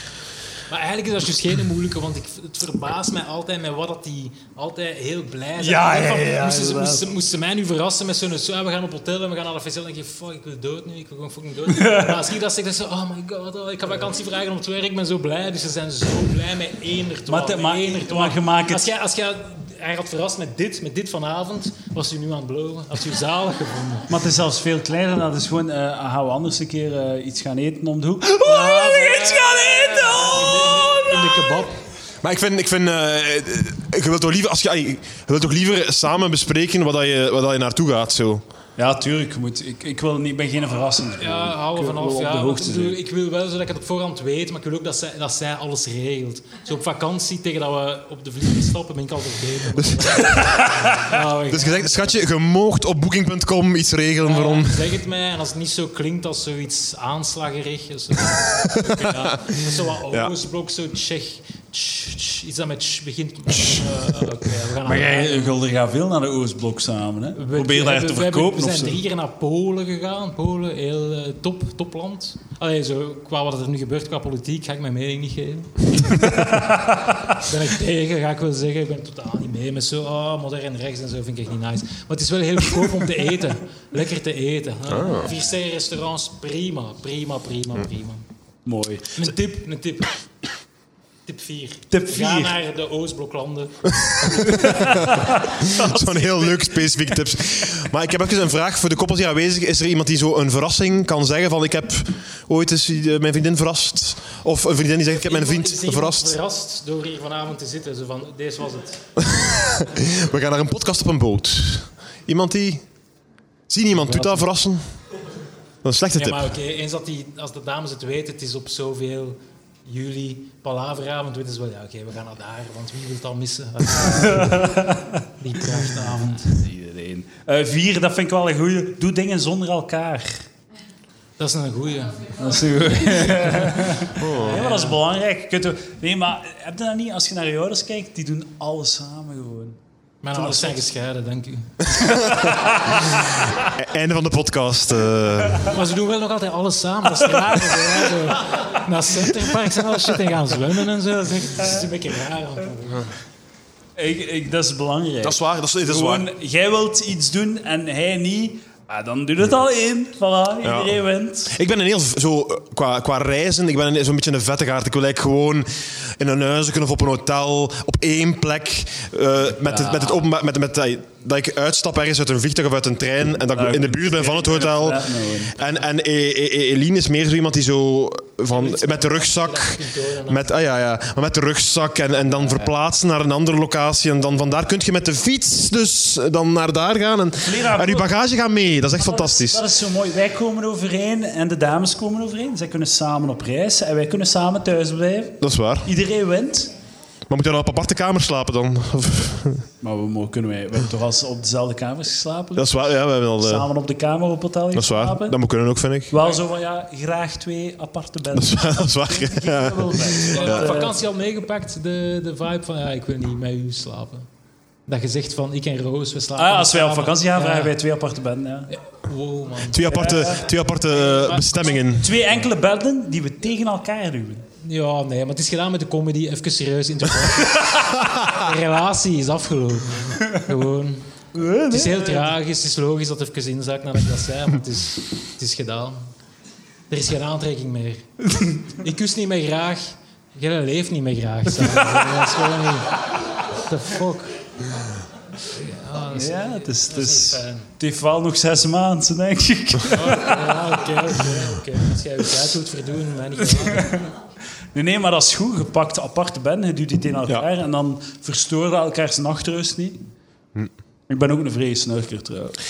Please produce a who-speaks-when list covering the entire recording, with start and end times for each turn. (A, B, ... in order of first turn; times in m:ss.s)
0:00.7-0:24.1 A
0:05.6-0:07.1 B
0:11.7-0:12.3 B
0:17.3-0:18.8 B
0:24.1-0:31.5 B
0:28.4-0:31.8 A
0:32.2-0:38.4 C
0:38.8-0:43.0 B
0:41.2-0:52.2 A
0:49.9-0:50.4 C
0:51.5-0:54.9 C
0:54.2-1:05.6 A
0:58.7-0:59.4 C
1:03.5-1:04.3 C
1:04.8-1:09.0 B
1:07.4-1:28.2 A
1:24.9-1:25.3 C
1:28.7-1:29.2 B
1:29.2-1:30.2 A
1:31.3-1:34.8 A
1:31.9-1:32.5 B
1:34.4-1:36.3 B
1:35.6-1:46.4 C
1:45.2-1:49.0 A
1:49.2-1:52.9 C
1:53.7-1:54.9 C
1:54.1-1:54.4 B
1:55.8-1:56.5 C
1:56.1-2:04.8 A
2:04.2-2:05.2 B
2:05.4-2:06.6 A
2:05.8-2:10.4 B
2:11.4-2:12.3 A
2:12.4-2:19.8 B
2:13.4-2:15.0 A
2:14.2-2:14.6 C
2:20.2-2:22.3 A
2:20.3-2:20.8 B
2:23.1-2:25.7 C
2:25.6-2:33.1 A
2:34.0-2:41.6 B
2:35.2-2:36.3 C
2:40.6-2:41.0 C
2:41.5-3:09.6 C
2:49.6-2:50.2 B
2:53.5-2:55.6 B
2:58.5-3:00.5 A
3:07.4-3:08.2 B
3:09.0-3:16.7 B
3:15.4-3:15.9 C
3:17.3-3:19.6 C
3:19.8-3:25.4 B
3:22.6-3:23.7 C
3:24.7-3:26.2 C
3:26.1-3:30.9 B
3:28.3-3:30.8 C
3:30.3-3:34.3 A
3:34.9-3:37.8 A
3:36.4-3:38.7 B
3:38.8-3:42.1 A
3:39.7-3:42.1 C
3:39.9-3:40.4 B
3:42.0-3:44.5 B
3:44.6-3:51.1 A
3:51.3-3:52.3 B
3:51.7-3:56.0 A
3:56.9-3:58.1 A
3:58.3-3:58.6 B
3:58.7-4:03.0 A
4:03.7-4:04.4 A
4:05.4-4:07.7 A
4:06.1-4:10.5 B
4:09.9-4:14.0 A
4:13.6-4:14.1 B
4:14.8-4:20.0 B
4:21.1-4:22.6 B